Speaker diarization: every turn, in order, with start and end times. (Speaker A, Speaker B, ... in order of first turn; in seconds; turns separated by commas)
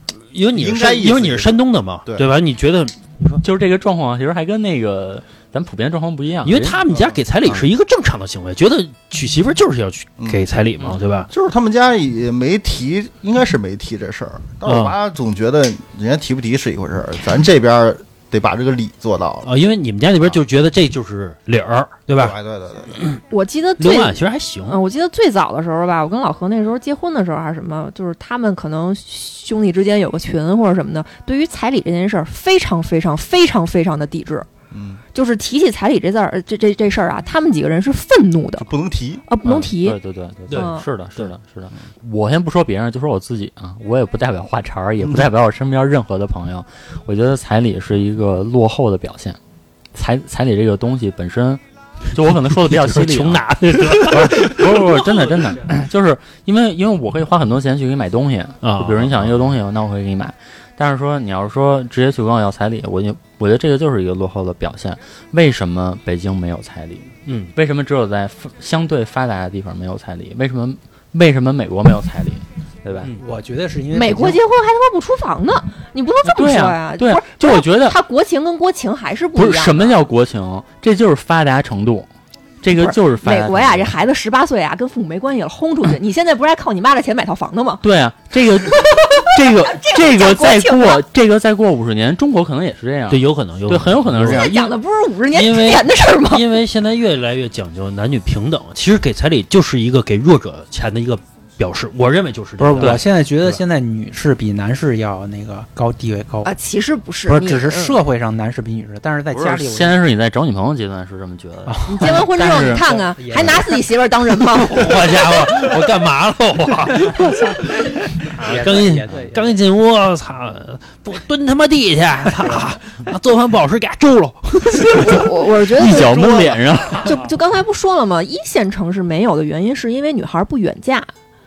Speaker A: 0.3-3.4, Speaker B: 0.5-2.3, Speaker C: 3.4-6.8, Speaker A: 6.4-11.3, Speaker B: 6.9-7.2, Speaker B: 10.2-10.5, Speaker B: 11.3-19.5, Speaker A: 14.7-15.0, Speaker A: 19.4-22.4, Speaker B: 22.2-23.0, Speaker D: 23.3-34.5, Speaker A: 23.8-24.8, Speaker B: 34.7-35.0, Speaker D: 35.1-38.7, Speaker B: 38.6-39.2, Speaker D: 39.3-40.0, Speaker C: 39.5-49.4, Speaker A: 40.5-41.3, Speaker D: 40.5-40.9, Speaker C: 50.0-73.1, Speaker A: 52.7-55.1, Speaker A: 58.6-59.3, Speaker A: 67.3-67.5, Speaker E: 73.1-74.4, Speaker D: 73.9-80.0, Speaker C: 76.2-78.0, Speaker C: 79.4-82.1, Speaker C: 82.6-83.9, Speaker D: 82.7-87.8, Speaker C: 87.8-94.7, Speaker D: 88.8-91.0, Speaker A: 93.1-94.5, Speaker D: 94.2-96.5, Speaker A: 95.3-103.6, Speaker E: 102.6-106.5, Speaker D: 106.4-108.0, Speaker E: 107.3-110.0, Speaker C: 109.3-113.5, Speaker E: 111.7-112.3, Speaker D: 111.9-115.0, Speaker A: 114.6-125.3, Speaker E: 117.1-117.4, Speaker E: 118.2-119.6, Speaker D: 125.0-131.1, Speaker C: 125.7-127.2